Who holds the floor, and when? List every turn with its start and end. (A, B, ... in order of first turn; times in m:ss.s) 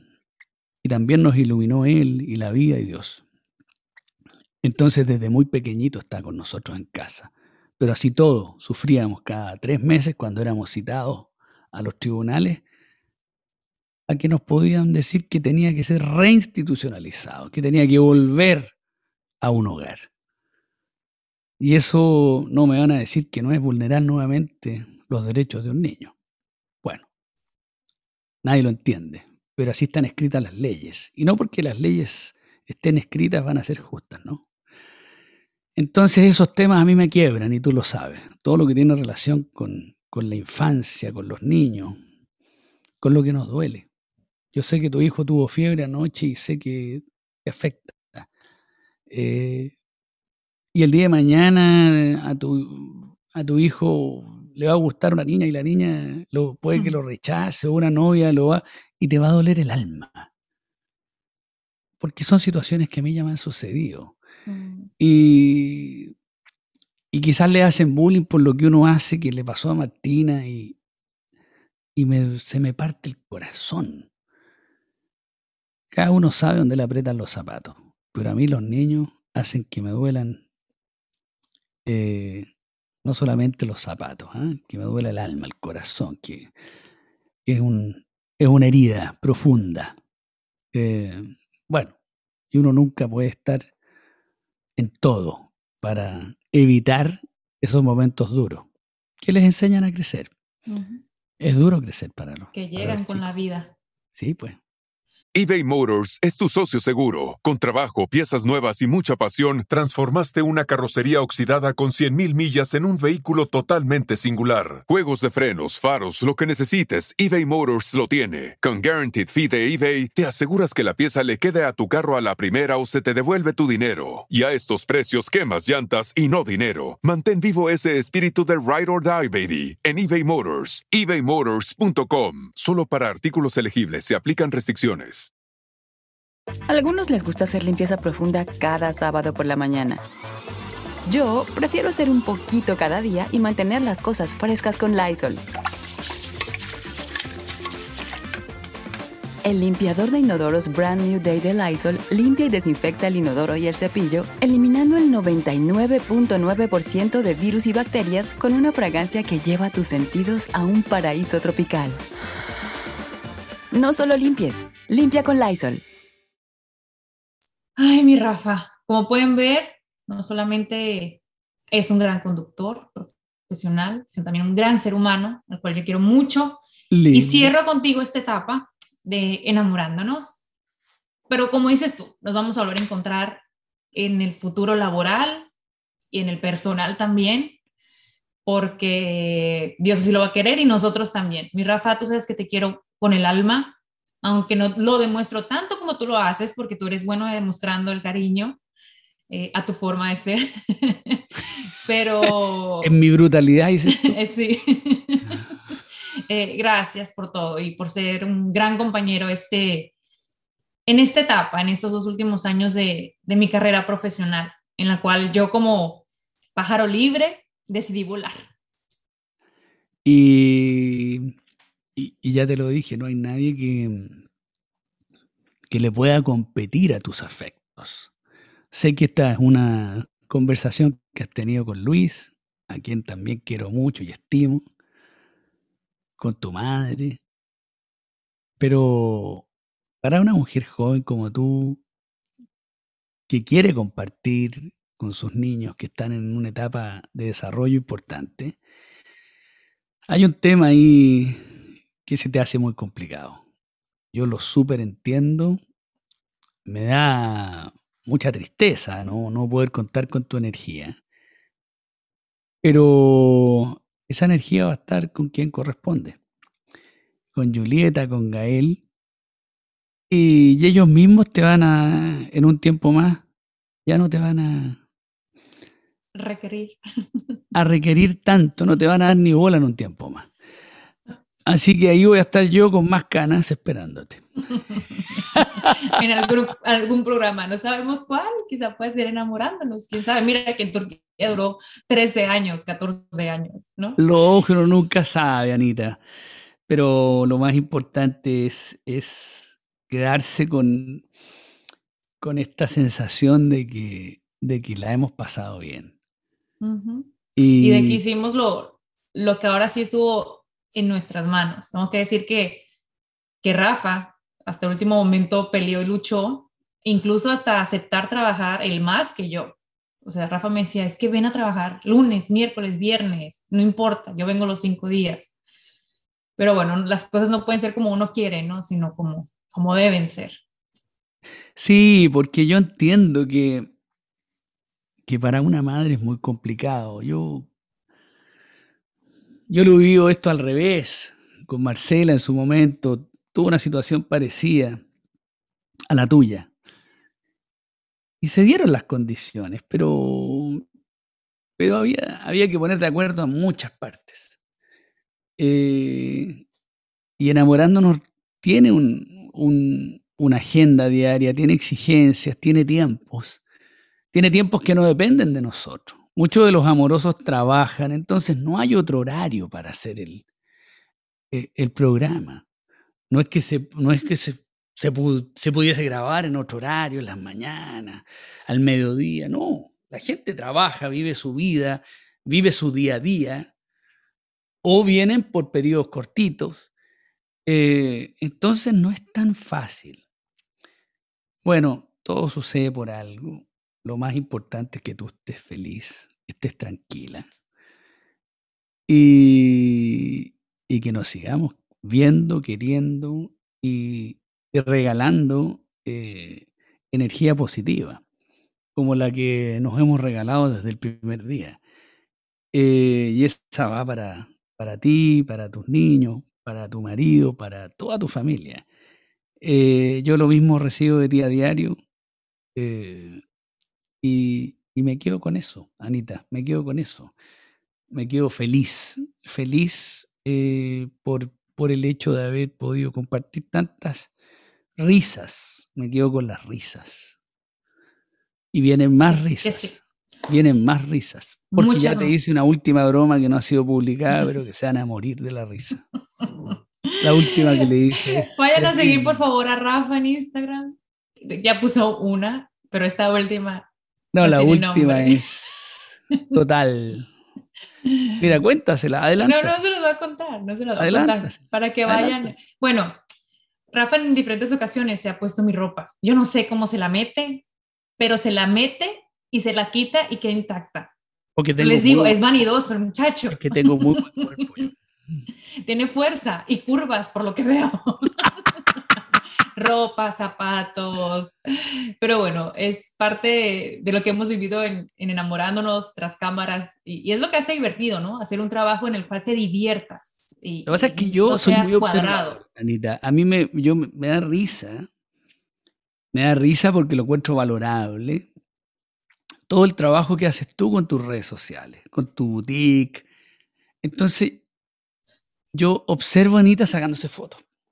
0:00.8-0:03.2 A
0:04.6-0:12.6 A
0:14.1-0:18.7 A
0:19.4-0:20.1 A
0:21.6-0:26.1 A
0:28.4-0:34.4 A
0:35.8-0:42.0 A
0:43.0-0:43.9 A
0:44.5-0:48.3 A
0:49.1-0:49.7 A
0:50.7-1:00.3 A
1:02.0-1:04.1 A
1:04.5-1:04.9 B
1:05.0-1:06.1 A
1:07.1-1:10.8 A
1:12.0-1:14.1 A
1:15.9-1:20.4 A
1:21.8-1:22.5 A
1:23.0-1:26.5 A
1:27.4-1:29.9 A
1:30.7-1:31.9 A
1:32.5-1:33.7 A
1:34.8-1:38.7 A
1:39.2-1:40.3 A
1:40.7-1:41.0 B
1:41.4-1:43.3 A
1:42.5-1:43.7 B
1:44.1-1:44.6 A
1:45.4-2:15.3 C
2:16.7-2:20.0 D
2:21.1-2:25.4 D
2:29.4-2:42.0 D
2:43.7-2:45.8 D
2:47.8-3:00.4 B
2:56.9-2:57.6 A
3:01.3-3:03.4 B
3:03.9-3:05.5 B
3:06.1-3:07.6 B
3:08.4-3:18.6 B
3:19.3-3:22.9 B
3:22.8-3:24.2 A
3:24.1-3:25.5 B
3:26.3-3:29.9 B
3:30.9-3:36.0 B
3:36.6-3:38.5 B
3:40.0-3:41.3 A
3:42.0-3:44.2 A
3:45.7-3:48.1 A
3:48.7-3:54.7 A
3:56.2-3:57.2 A
3:58.6-3:59.4 A
4:00.0-4:01.8 A
4:03.3-4:08.6 A
4:10.1-4:11.4 A
4:12.1-4:13.4 A
4:14.1-4:15.6 A
4:16.6-4:21.0 A
4:22.6-4:26.2 A
4:27.3-4:28.8 A
4:30.1-4:33.2 A
4:33.9-4:34.8 A
4:36.1-4:36.8 B
4:37.5-4:40.3 A
4:41.4-4:44.2 A
4:45.1-4:54.0 B
4:45.4-4:45.7 A
4:54.0-4:56.0 A
4:56.7-5:01.0 A
5:02.2-5:05.9 A
5:06.6-5:12.6 B
5:07.4-5:08.0 A
5:13.4-5:25.3 B
5:26.4-5:30.4 B
5:31.6-5:33.7 A
5:35.1-5:37.5 A
5:39.5-5:44.8 A
5:45.9-5:46.5 A
5:48.2-5:50.6 A
5:51.6-5:54.4 A
5:55.4-5:56.4 A
5:57.2-6:03.4 A
6:04.1-6:10.2 A
6:11.3-6:12.4 A
6:13.1-6:23.5 A
6:24.6-6:26.7 A
6:27.4-6:30.0 A
6:31.4-6:37.3 A
6:38.9-6:48.0 A
6:48.7-6:51.6 A
6:52.5-6:58.6 A
6:59.4-7:01.8 A
7:02.6-7:03.2 A
7:04.0-7:07.1 A
7:07.9-7:14.1 A
7:14.8-7:17.2 A
7:18.5-7:25.8 A
7:19.1-7:19.8 B
7:21.5-7:22.3 B
7:26.5-7:33.7 B
7:27.0-7:29.2 A
7:34.1-7:37.1 A
7:34.2-7:35.2 B
7:37.8-7:38.2 B
7:38.2-7:39.6 A
7:39.2-7:43.0 B
7:40.8-7:42.4 A
7:43.7-7:47.4 B
7:48.0-7:50.9 B
7:51.4-7:52.2 A
7:51.6-7:54.6 B
7:53.3-7:54.7 A
7:55.6-7:58.3 B
7:59.6-8:12.4 B
8:10.6-8:14.9 A
8:16.1-8:18.3 A
8:19.5-8:23.0 A
8:23.8-8:24.4 A
8:25.5-8:27.4 A